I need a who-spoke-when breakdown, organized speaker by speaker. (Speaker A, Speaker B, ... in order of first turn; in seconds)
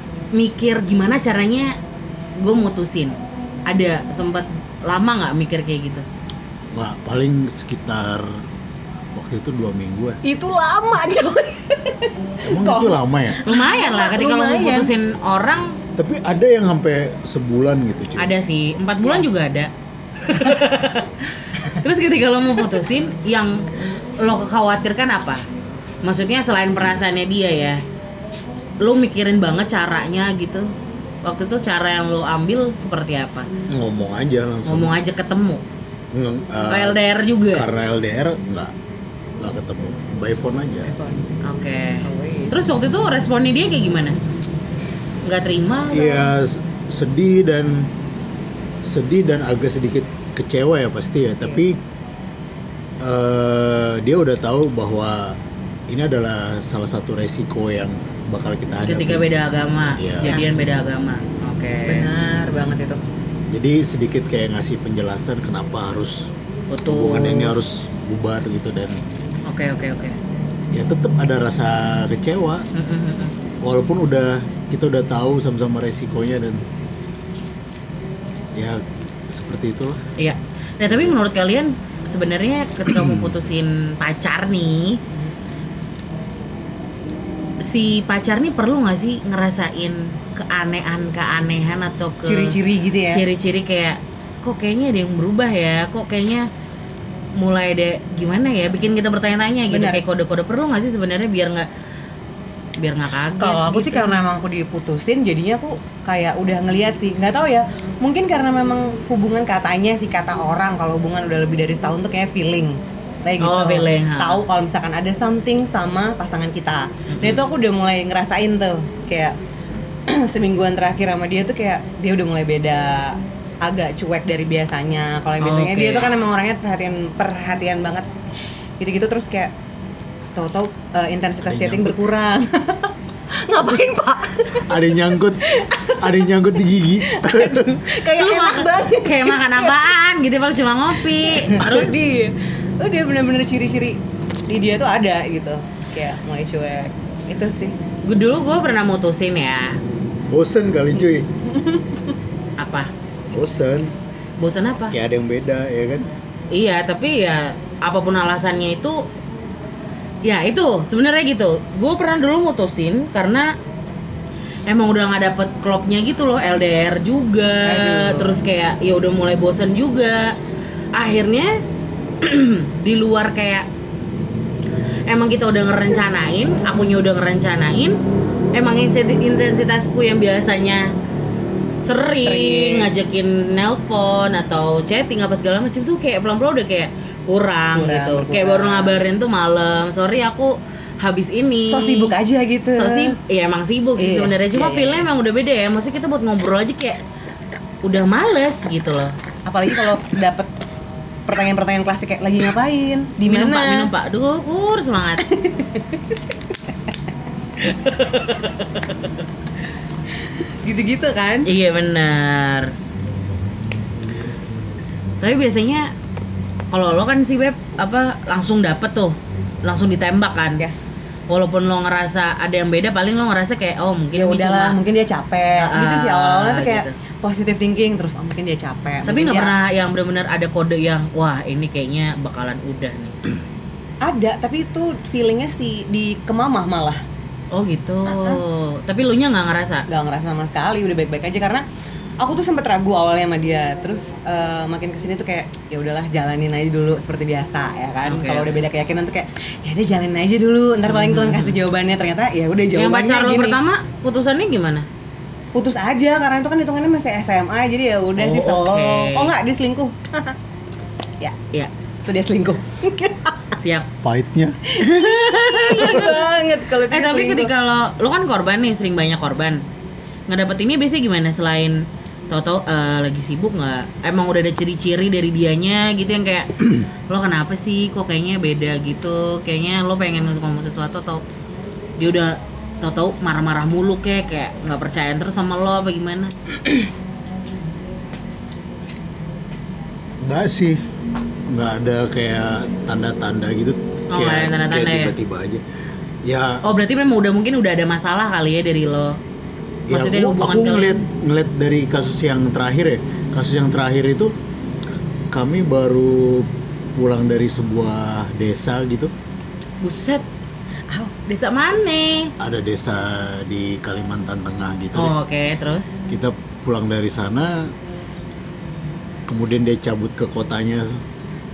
Speaker A: 0.3-1.7, 2.4-3.2, 3.7-6.0, 13.4-15.8, 18.2-19.7, 20.2-23.6, 24.2-25.4, 26.0-27.8, 28.8-30.7, 31.2-33.5, 34.6-35.6, 36.7-37.7, 41.4-44.2, 45.2-46.3, 58.9-62.1, 66.7-67.6, 69.5-70.2, 72.7-73.3, 80.2-85.0, 87.6-92.5, 93.1-96.5, 97.4-101.7, 102.8-104.2, 113.4-114.4, 117.1-117.4, 125.4-126.1, 138.1-141.9, 148.1-149.8, 152.6-152.9, 154.4-154.9, 156.5-159.0, 160.2-163.5, 164.7-170.3, 170.9-173.7, 175.1-178.0, 178.5-180.9, 181.8-192.1, 192.7-197.0, 197.8-199.1, 203.2-205.3, 207.6-209.1, 211.4-212.7, 215.2-215.9, 216.7-220.6, 221.3-224.8, 225.6-226.9, 229.1-233.2, 237.5-239.8, 248.0-248.5, 250.9-251.6, 252.7-254.8, 258.2-259.3, 263.6-263.9, 264.8-266.3, 266.9-269.6, 270.3-276.5, 277.1-281.2, 282.0-286.3, 294.1-295.1, 296.6-299.2, 299.9-301.0, 309.8-310.2, 311.2-312.3, 314.9-316.0
Speaker B: 6.7-8.4, 9.1-10.2, 12.4-13.4, 16.0-18.3, 26.8-27.0, 33.7-34.9, 36.1-38.7, 39.4-40.9, 45.9-47.9, 48.8-51.8, 53.0-55.4, 55.9-59.3, 60.0-60.4, 63.5-66.3, 66.8-69.0, 70.7-72.7, 73.6-76.6, 78.5-80.0, 82.9-83.3, 131.4-131.9, 134.7-137.8, 150.3-151.3, 153.3-153.9, 154.9-156.1, 264.0-264.6, 290.2-290.8, 291.5-295.6, 296.2-296.6, 299.9-304.3, 305.3-309.1, 312.4-315.1, 316.1-317.7, 319.3-321.0
Speaker C: 10.2-14.9, 40.9-41.3, 41.9-42.5, 61.9-63.0, 92.2-93.2, 99.7-100.0, 103.4-119.3, 120.1-128.1, 128.8-129.5, 130.3-134.7, 135.4-136.2, 137.0-139.8, 141.1-147.7, 151.5-152.1, 167.6-168.3, 182.2-182.9, 187.7-189.0, 191.7-193.2, 194.0-195.0, 199.4-200.5, 201.3-203.9, 205.3-205.8, 210.6-211.5, 220.6-221.0, 224.1-229.5, 234.0-237.0, 238.1-238.4, 239.9-241.6, 242.2-253.6, 255.5-260.4, 262.1-263.3, 264.7-267.5